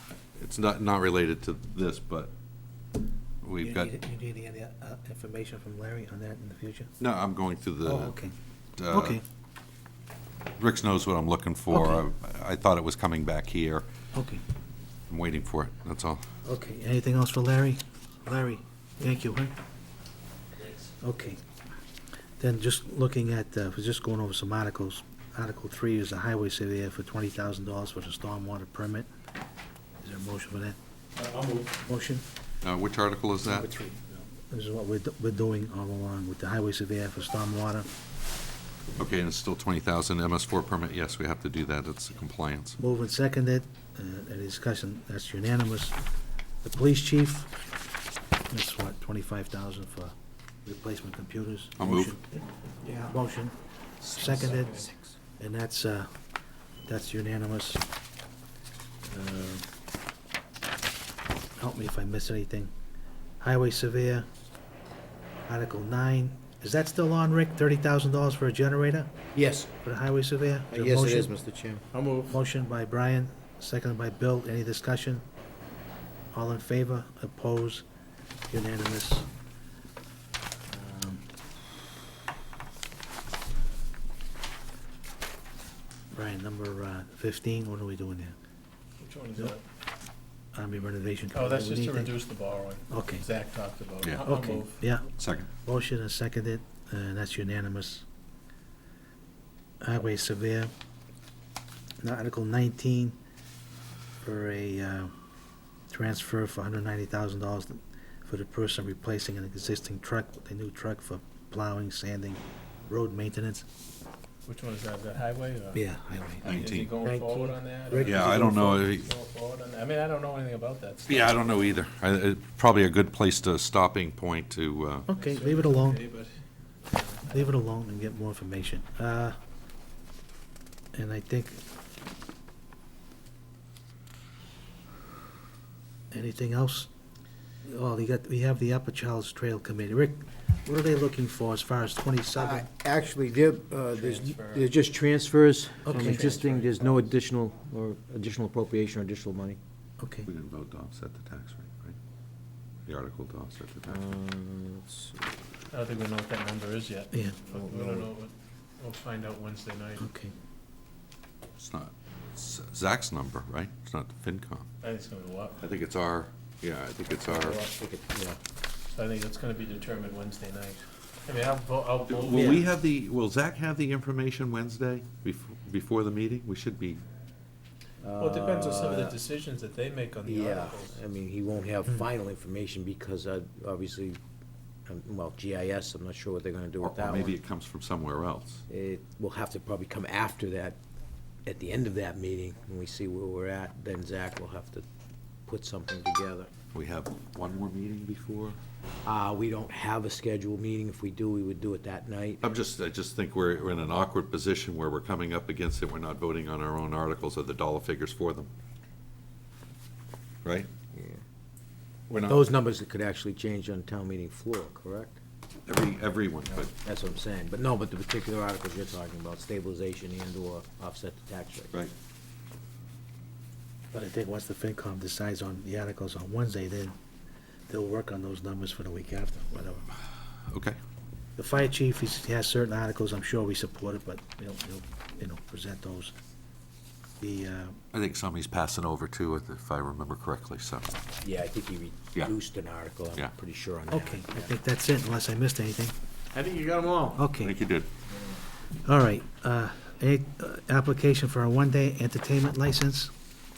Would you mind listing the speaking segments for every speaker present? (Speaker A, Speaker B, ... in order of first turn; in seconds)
Speaker A: 0.3-2.3, 3.4-3.9, 7.0-8.2, 8.8-9.2, 10.6-13.8, 15.1-16.2, 32.6-33.7, 39.0-42.8, 51.8-52.1, 94.0-94.3, 95.2-95.5, 116.4-116.9, 118.0-119.1, 121.1-125.1, 150.2-152.0, 152.8-154.0, 161.6-164.7, 165.6-167.6, 172.1-177.0, 186.8-188.6, 196.7-198.6, 202.4-208.5, 210.4-210.7, 212.1-212.5, 215.7-216.7, 230.5-230.8, 237.9-240.9, 247.4-247.9
Speaker B: 3.6-6.9, 7.8-8.3, 8.9-9.2, 11.7-12.1, 14.1-14.4, 16.4-19.5, 21.0-21.4, 22.4-29.1, 30.0-30.8, 31.9-32.2, 33.5-37.9, 42.8-46.0, 46.6-47.5, 48.5-50.1, 50.6-52.4, 53.0-54.8, 55.4-56.1, 56.9-57.8, 59.0-59.6, 61.6-62.7, 63.4-64.3, 65.5-69.2, 69.8-71.3, 72.3-75.2, 76.3-77.8, 78.5-79.3, 80.7-81.2, 86.1-88.3, 90.5-92.2, 92.9-93.3, 94.2-95.1, 95.6-98.0, 99.8-100.7, 102.0-103.2, 104.2-105.1, 105.9-113.7, 115.7-116.7, 117.8-118.5, 125.1-126.0, 127.3-129.3, 130.9-131.6, 136.1-136.9, 137.6-142.7, 145.8-146.3, 150.0-150.3, 157.1-157.4, 160.0-160.3, 223.9-227.0, 227.7-229.9, 231.4-236.1, 237.2-237.8, 243.9-245.9, 247.1-247.6, 248.8-253.1
Speaker C: 31.1-31.8, 52.9-53.1, 54.5-54.8, 71.9-72.4, 89.0-89.6, 91.3-94.8, 114.5-115.8, 116.4-121.5, 125.2-126.3, 126.9-127.4, 143.9-144.7, 145.9-147.1, 155.7-160.1, 164.8-165.6, 168.9-172.7, 178.1-181.0, 246.3-247.2
Speaker D: 54.1-54.4, 69.3-69.7, 70.7-71.8, 117.0-117.5, 142.3-149.6, 153.9-155.4, 157.5-158.1, 167.3-168.4, 178.0-179.2, 180.2-184.2, 184.9-187.4, 188.7-190.8, 191.4-194.8, 195.4-196.5, 199.0-202.4, 210.9-211.2, 212.2-215.2, 216.6-221.7, 241.2-244.5